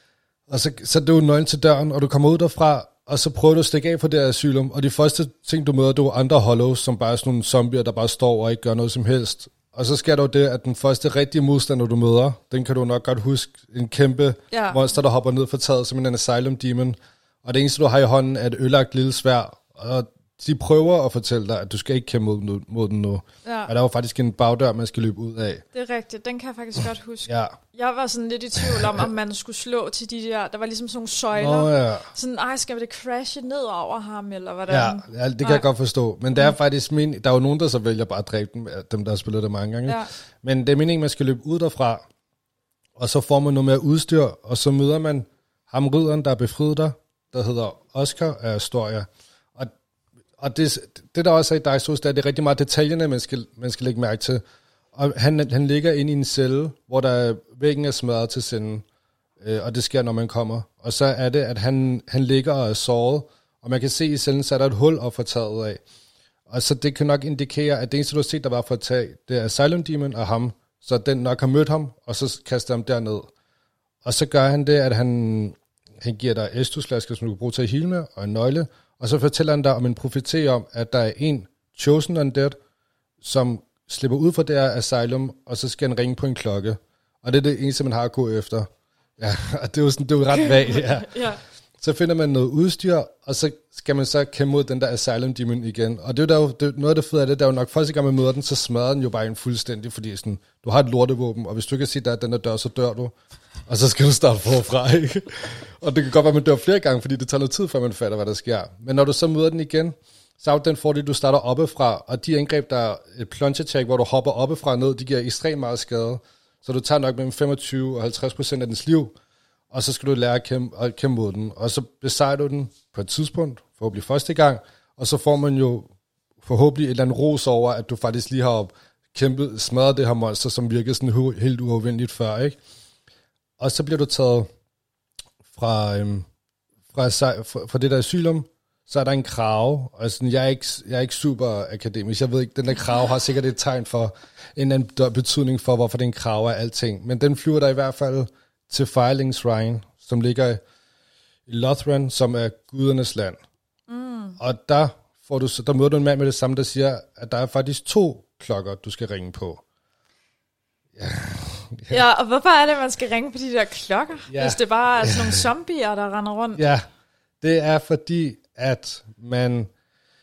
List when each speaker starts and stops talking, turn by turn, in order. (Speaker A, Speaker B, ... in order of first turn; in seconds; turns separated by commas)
Speaker A: 0.5-25.6, Speaker B: 14.5-14.8, Speaker B: 23.4-23.7, Speaker B: 25.7-35.7, Speaker A: 27.3-27.6, Speaker A: 28.6-29.1, Speaker A: 31.4-32.1, Speaker A: 34.7-42.0, Speaker A: 43.0-49.7, Speaker A: 50.4-54.4, Speaker A: 54.9-58.8, Speaker A: 59.4-65.8, Speaker A: 66.5-73.3, Speaker A: 74.0-82.5, Speaker A: 83.2-91.1, Speaker B: 90.3-91.4, Speaker A: 91.8-103.1, Speaker A: 103.7-119.1, Speaker A: 119.7-125.9, Speaker A: 126.4-132.6, Speaker A: 133.6-134.5, Speaker A: 135.5-136.3, Speaker A: 136.9-150.6, Speaker A: 151.5-153.4, Speaker B: 153.9-154.4, Speaker A: 154.4-159.6, Speaker A: 160.9-162.0, Speaker B: 161.9-166.6, Speaker A: 164.3-165.4, Speaker A: 166.5-166.9, Speaker A: 167.4-169.7